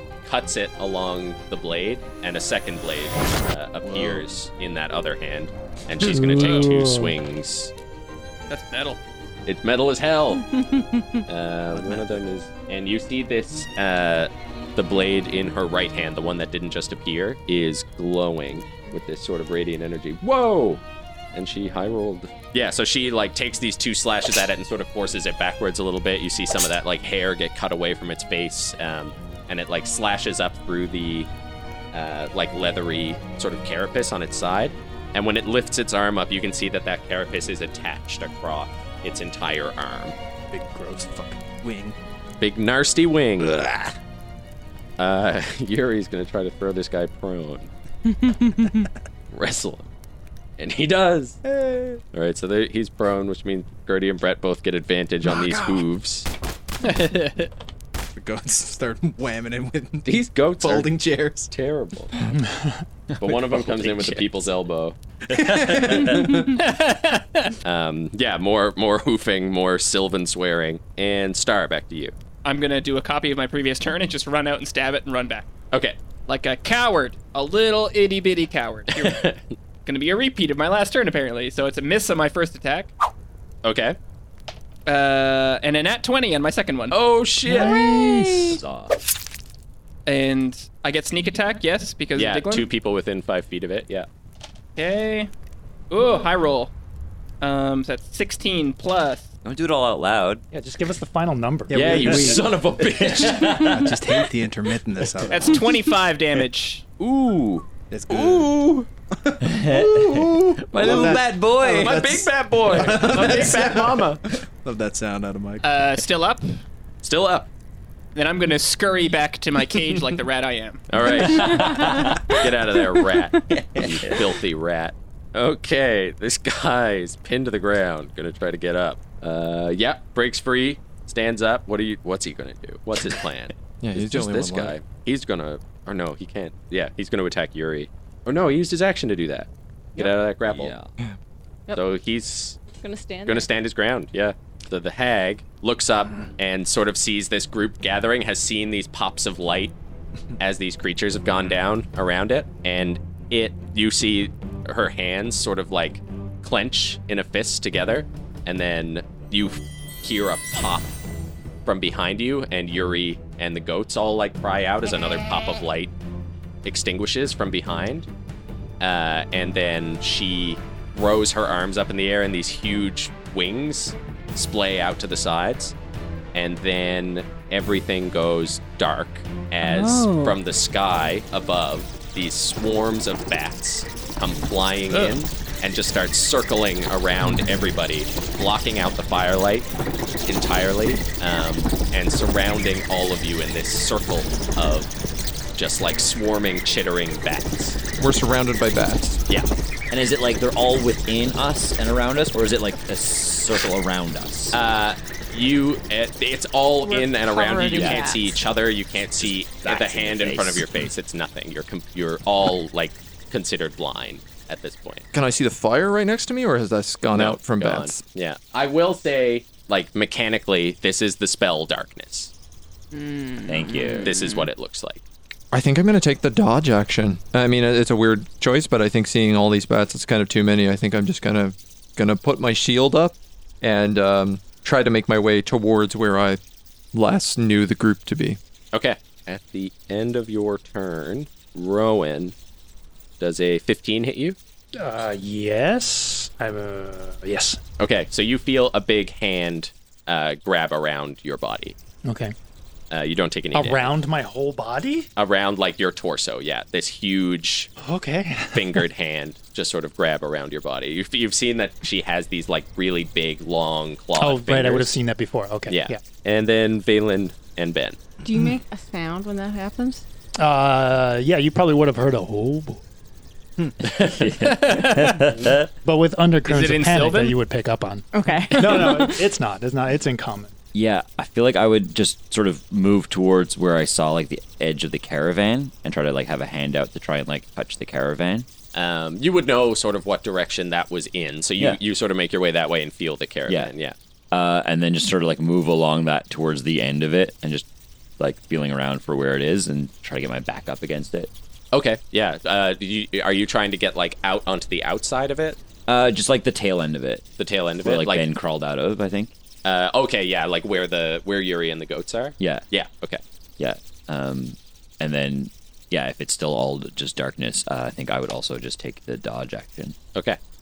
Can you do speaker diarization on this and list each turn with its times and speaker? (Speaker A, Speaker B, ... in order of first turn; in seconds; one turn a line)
Speaker A: 0.2-7.7
Speaker B: 3.8-4.2
Speaker C: 6.0-7.1
Speaker D: 6.3-6.7
Speaker D: 8.5-9.0
Speaker A: 9.4-10.5
Speaker E: 10.5-11.2
Speaker A: 11.3-20.8
Speaker B: 11.8-12.0
Speaker A: 21.3-31.3
Speaker A: 31.9-40.1
Speaker B: 40.5-42.0
Speaker A: 42.4-43.9
Speaker A: 45.0-47.7
Speaker E: 48.1-48.9
Speaker A: 49.3-49.9
Speaker A: 50.6-51.4
Speaker B: 51.4-52.0
Speaker A: 52.1-56.3
Speaker B: 55.3-55.8
Speaker D: 56.8-57.5
Speaker B: 58.1-61.5
Speaker A: 60.0-60.9
Speaker A: 61.5-62.1
Speaker C: 62.3-62.8
Speaker A: 63.2-65.0
Speaker F: 63.6-64.3
Speaker B: 65.3-66.6
Speaker F: 65.3-66.2
Speaker D: 66.5-67.5
Speaker A: 67.6-72.1
Speaker D: 72.4-75.5
Speaker A: 75.7-76.0
Speaker D: 76.3-79.3
Speaker A: 78.9-79.4
Speaker D: 79.8-82.9
Speaker A: 83.6-84.0
Speaker D: 84.8-87.0
Speaker A: 86.9-87.7
Speaker E: 87.5-88.6
Speaker B: 87.6-88.4
Speaker F: 87.8-89.0
Speaker D: 90.0-92.7
Speaker A: 92.2-94.0
Speaker D: 94.8-95.3
Speaker D: 95.9-96.7
Speaker D: 97.4-99.3
Speaker F: 99.4-100.4
Speaker C: 100.5-102.4
Speaker B: 101.7-102.5
Speaker A: 101.7-103.7
Speaker F: 102.1-104.2
Speaker B: 103.6-105.6
Speaker D: 105.3-106.8
Speaker A: 107.0-108.8
Speaker B: 107.9-115.6
Speaker F: 109.4-112.2
Speaker A: 111.7-114.2
Speaker D: 115.6-116.6
Speaker A: 117.0-117.5
Speaker D: 118.1-120.8
Speaker A: 120.9-140.7
Speaker E: 121.1-123.4
Speaker F: 121.2-122.2
Speaker F: 123.5-124.2
Speaker G: 133.8-134.7
Speaker F: 140.0-140.9
Speaker A: 141.7-142.6
Speaker E: 142.7-143.5
Speaker A: 143.2-149.7
Speaker A: 150.4-160.9
Speaker A: 161.7-165.9
Speaker A: 166.6-168.1
Speaker A: 168.8-175.7
Speaker A: 176.3-189.7
Speaker E: 179.6-180.4
Speaker A: 190.2-194.9
Speaker A: 195.6-197.8
Speaker G: 198.0-199.2
Speaker F: 199.9-204.6
Speaker A: 204.5-215.1
Speaker E: 206.8-208.4
Speaker F: 207.7-208.1
Speaker F: 209.2-210.8
Speaker G: 215.1-218.0
Speaker A: 217.1-222.3
Speaker E: 222.9-224.5
Speaker F: 223.5-224.1
Speaker A: 223.9-225.0
Speaker G: 225.5-236.4
Speaker G: 236.9-238.4
Speaker A: 238.7-242.3
Speaker A: 243.2-244.4
Speaker C: 244.7-247.6
Speaker A: 247.8-251.8
Speaker C: 252.0-252.3
Speaker A: 252.9-253.9
Speaker C: 253.5-255.1
Speaker A: 255.2-257.7
Speaker C: 257.8-258.8
Speaker A: 258.5-264.9
Speaker C: 264.2-266.0
Speaker A: 265.7-268.0
Speaker E: 268.2-270.0
Speaker C: 270.4-272.8
Speaker F: 273.9-275.7
Speaker D: 274.4-275.3
Speaker C: 275.8-280.5
Speaker D: 276.4-277.4
Speaker E: 278.1-279.2
Speaker F: 280.7-288.5
Speaker A: 288.7-293.9
Speaker F: 293.5-293.7
Speaker F: 294.3-297.6
Speaker F: 298.2-301.3
Speaker A: 301.7-305.6
Speaker F: 305.9-307.2
Speaker A: 307.4-308.2
Speaker F: 307.8-309.3
Speaker A: 309.6-313.2
Speaker F: 312.4-312.6
Speaker F: 313.6-319.9